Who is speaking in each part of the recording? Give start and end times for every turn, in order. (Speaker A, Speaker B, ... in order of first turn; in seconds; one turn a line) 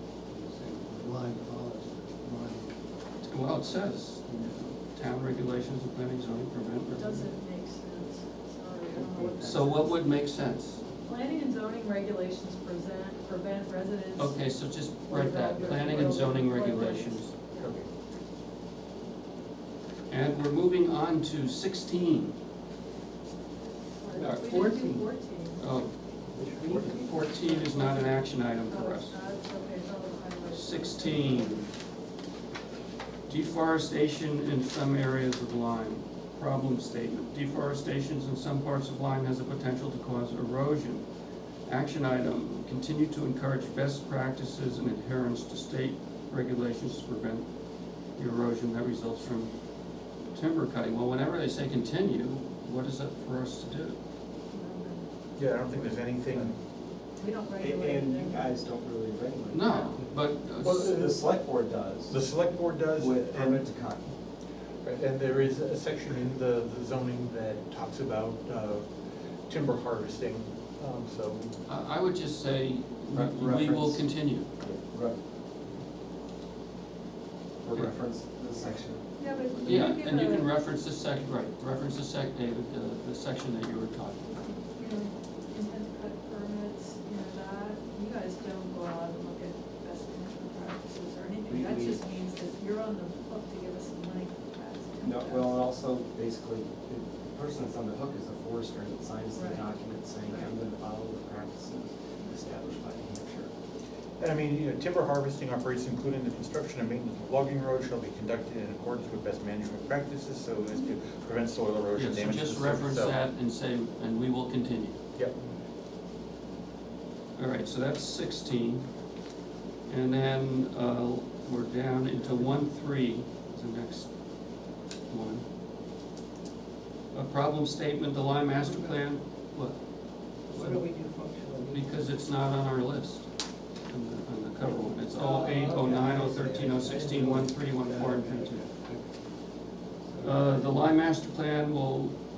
Speaker A: 0.3-2.7
Speaker B: 3.2-7.3
Speaker C: 6.9-10.0
Speaker A: 9.1-9.6
Speaker B: 9.4-10.8
Speaker C: 11.0-17.9
Speaker B: 14.2-17.3
Speaker B: 20.1-22.4
Speaker C: 23.9-25.6
Speaker B: 24.1-25.9
Speaker A: 26.3-27.2
Speaker B: 26.7-29.1
Speaker C: 26.8-31.6
Speaker B: 30.5-31.7
Speaker B: 33.3-41.0
Speaker B: 41.7-47.5
Speaker B: 48.1-49.5
Speaker B: 50.3-54.0
Speaker C: 54.5-55.0
Speaker D: 55.4-56.5
Speaker E: 55.7-56.5
Speaker C: 57.1-58.5
Speaker E: 57.5-60.1
Speaker B: 59.5-60.9
Speaker D: 60.6-61.5
Speaker E: 60.7-62.2
Speaker D: 62.1-63.7
Speaker E: 62.9-64.1
Speaker D: 64.8-68.9
Speaker D: 69.5-71.5
Speaker B: 71.7-74.5
Speaker E: 73.1-74.0
Speaker E: 74.6-75.2
Speaker E: 77.6-79.0
Speaker C: 79.2-80.5
Speaker B: 79.6-84.5
Speaker C: 84.7-95.5
Speaker E: 91.5-92.0
Speaker E: 95.0-103.5
Speaker C: 99.3-99.7
Speaker C: 100.2-100.5
Speaker D: 104.2-113.2
Speaker B: 111.9-115.0
Speaker B: 117.3-118.9
Speaker B: 119.9-124.1
Speaker B: 125.1-125.4
Speaker B: 127.1-129.8
Speaker A: 128.6-128.9
Speaker B: 130.5-130.8
Speaker A: 130.5-132.0
Speaker B: 131.7-133.3
Speaker B: 133.8-138.6
Speaker A: 135.2-139.1
Speaker A: 140.1-140.7
Speaker B: 140.2-142.2